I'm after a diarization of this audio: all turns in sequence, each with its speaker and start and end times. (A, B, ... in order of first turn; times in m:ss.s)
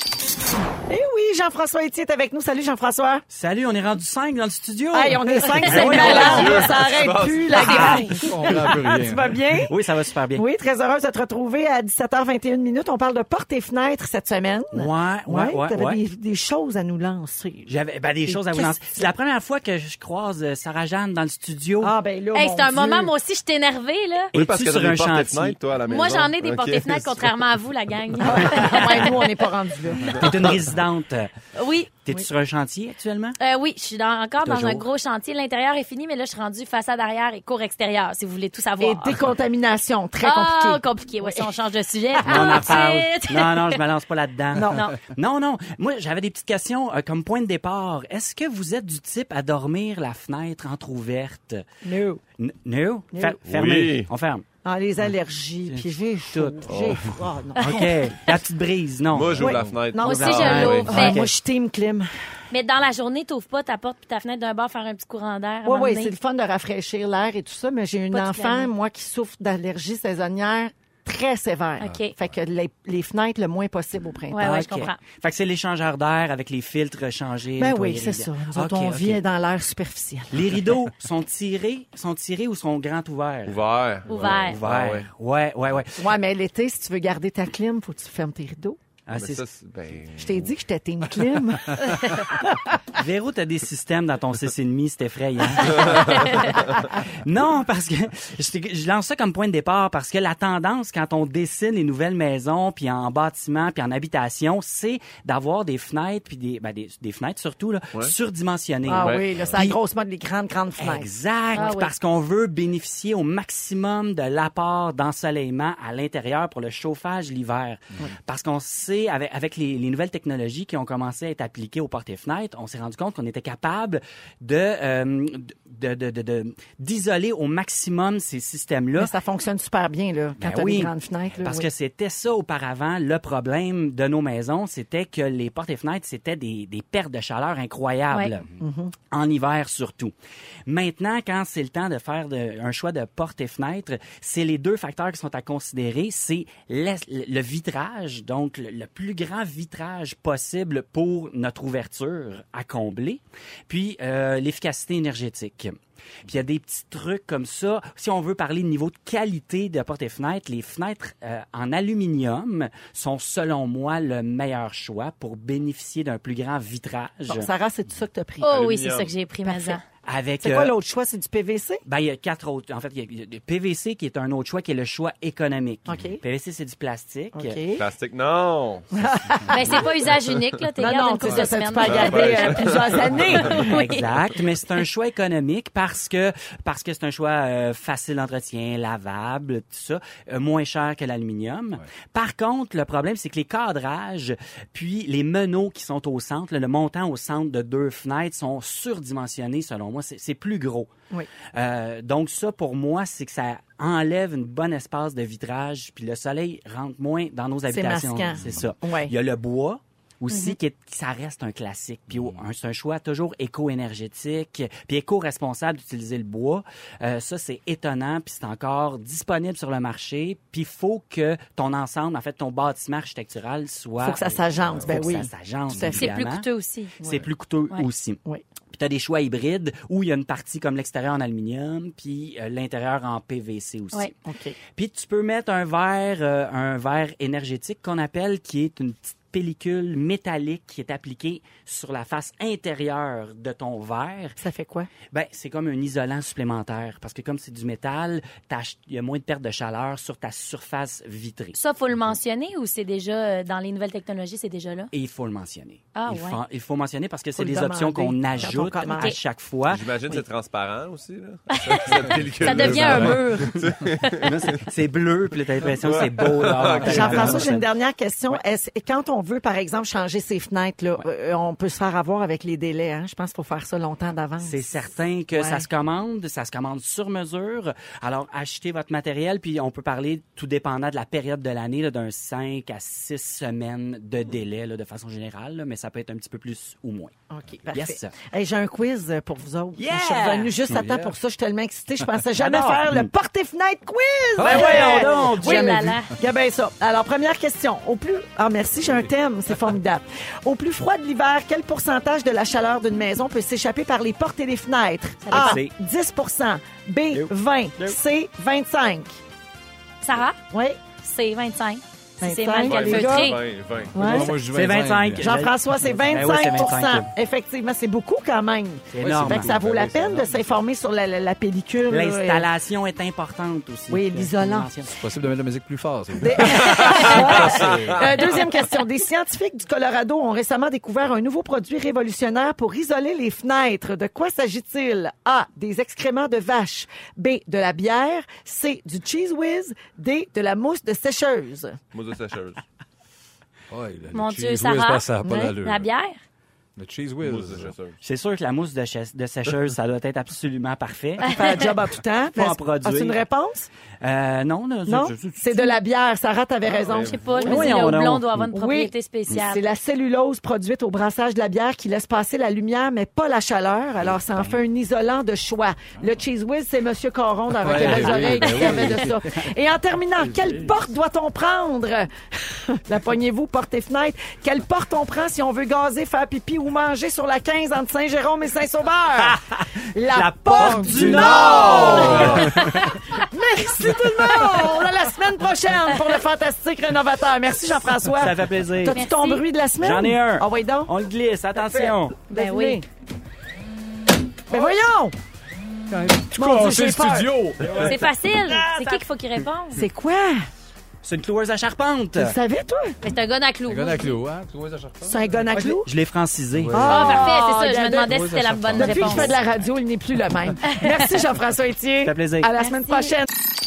0:00.9-0:03.2 A
0:03.3-0:06.8 B
0:04.9-0:09.7 A
0:05.7-0:06.6 C
0:05.9-0:08.0 D
0:07.5-0:08.1 B
0:07.9-0:09.4 E
0:09.7-0:10.4 B
0:10.3-0:17.7 A
0:14.7-0:16.0 B
0:17.6-0:21.9 B
0:18.3-0:19.1 A
0:21.8-0:23.1 A
0:22.3-0:24.3 C
0:24.3-0:25.6 B
0:24.3-0:27.3 D
0:25.9-0:29.3 C
0:28.2-0:30.5 A
0:30.1-0:31.3 B
0:31.5-0:32.0 C
0:32.0-0:33.4 B
0:33.4-0:39.2 C
0:34.4-0:34.9 B
0:38.8-0:41.6 A
0:40.2-0:43.8 C
0:42.2-0:42.6 A
0:42.2-0:51.6 B
0:44.5-0:44.9 A
0:44.7-0:45.0 C
0:51.8-0:52.2 A
0:52.4-0:54.4 B
0:53.5-0:54.1 D
0:54.6-0:58.0 A
0:55.6-0:57.0 B
0:56.6-0:57.0 D
0:57.6-0:59.5 B
0:59.1-1:00.9 D
0:59.4-1:02.1 A
0:59.4-0:59.7 E
1:00.0-1:01.2 C
1:00.1-1:01.3 B
1:02.5-1:06.1 C
1:05.6-1:14.6 A
1:08.1-1:08.7 C
1:11.8-1:12.1 C
1:14.3-1:15.0 C
1:14.4-1:19.2 B
1:17.6-1:20.6 A
1:20.3-1:26.1 B
1:23.4-1:25.1 D
1:24.1-1:24.6 C
1:26.0-1:28.8 A
1:29.1-1:29.4 B
1:29.1-1:30.5 D
1:30.1-1:32.6 A
1:32.9-1:49.8 B
1:36.1-1:36.5 C
1:48.9-1:51.1 A
1:49.0-1:49.5 D
1:50.8-2:09.1 B
1:51.5-1:51.9 C
2:09.0-2:11.7 A
2:10.4-2:18.5 B
2:18.6-2:18.9 A
2:19.1-2:20.1 B
2:20.7-2:47.5 B
2:47.3-2:48.5 A
2:48.4-2:49.8 C
2:48.4-2:49.1 D
2:49.4-2:49.8 A
2:50.1-2:50.8 B
2:50.4-2:51.8 A
2:51.8-2:57.6 B
2:55.9-2:56.2 A
2:57.3-2:57.8 A
2:57.8-2:59.0 D
2:59.0-3:00.0 A
2:59.5-3:04.1 C
3:00.8-3:03.8 A
3:01.3-3:03.5 D
3:03.5-3:20.9 B
3:21.5-3:46.5 B
3:27.7-3:29.1 A
3:28.2-3:28.7 E
3:30.3-3:30.6 C
3:32.1-3:32.5 E
3:44.0-3:46.1 A
3:44.8-3:45.1 E
3:45.9-3:47.0 C
3:47.0-3:48.2 B
3:47.0-3:47.2 A
3:48.7-3:54.1 B
3:54.2-3:54.6 A
3:54.7-4:04.4 B
4:04.4-4:04.9 A
4:05.1-4:11.6 B
4:11.5-4:14.9 C
4:14.9-4:20.2 B
4:15.9-4:16.4 C
4:17.3-4:19.1 A
4:19.7-4:24.2 D
4:21.5-4:24.3 C
4:22.8-4:23.0 B
4:24.2-4:27.7 B
4:25.8-4:27.5 D
4:26.8-4:34.6 A
4:34.4-4:47.1 B
4:35.3-4:35.6 A
4:47.3-5:09.1 A
4:47.7-4:48.1 B
4:49.8-4:50.6 B
4:50.7-4:51.1 E
4:52.4-4:53.1 B
4:54.4-4:55.9 B
4:54.4-4:56.2 C
5:05.2-5:05.6 C
5:05.3-5:05.7 B
5:07.1-5:08.0 B
5:10.0-5:10.4 C
5:10.5-5:10.8 A
5:11.0-5:13.4 C
5:12.2-5:13.4 A
5:12.6-5:13.9 D
5:13.8-5:15.4 E
5:13.9-5:14.3 A
5:14.0-5:17.1 B
5:15.2-5:22.5 A
5:18.9-5:19.6 B
5:19.0-5:20.6 E
5:21.9-5:25.0 B
5:23.9-5:24.7 A
5:24.9-5:28.0 E
5:26.2-5:41.8 A
5:26.6-5:27.8 D
5:41.9-5:42.6 D
5:43.7-5:45.9 E
5:44.1-5:46.2 C
5:45.2-5:45.5 A
5:46.8-5:47.7 E
5:47.2-5:48.0 D
5:48.0-5:51.3 B
5:51.2-5:51.7 C
5:51.2-5:53.7 A
5:52.3-5:53.2 B
5:54.0-5:55.7 B
5:54.9-6:19.4 A
5:56.8-5:57.2 D
5:56.9-5:59.6 C
5:57.4-5:58.5 B
6:07.6-6:09.5 E
6:07.7-6:08.6 B
6:08.5-6:08.9 C
6:10.2-6:10.7 E
6:19.2-6:22.8 B
6:19.9-6:30.9 A
6:20.6-6:23.0 E
6:24.0-6:24.6 E
6:28.2-6:29.0 B
6:28.9-6:29.4 C
6:29.8-6:32.2 B
6:31.6-6:32.8 A
6:32.3-6:32.8 C
6:34.5-6:34.9 E
6:34.5-6:35.1 A
6:35.9-6:37.9 E
6:36.3-6:37.3 A
6:37.6-6:39.0 B
6:37.8-6:39.9 C
6:39.7-6:40.5 A
6:41.0-6:42.3 B
6:42.2-6:43.0 A
6:43.0-6:44.2 C
6:43.7-6:45.5 E
6:45.0-6:45.9 A
6:45.5-6:47.0 B
6:46.6-6:47.3 E
6:46.7-6:48.2 A
6:46.9-6:49.4 C
6:48.0-6:49.5 E
6:48.7-6:53.3 A
6:50.6-6:51.2 C
6:52.0-6:52.5 B
6:52.6-6:53.1 C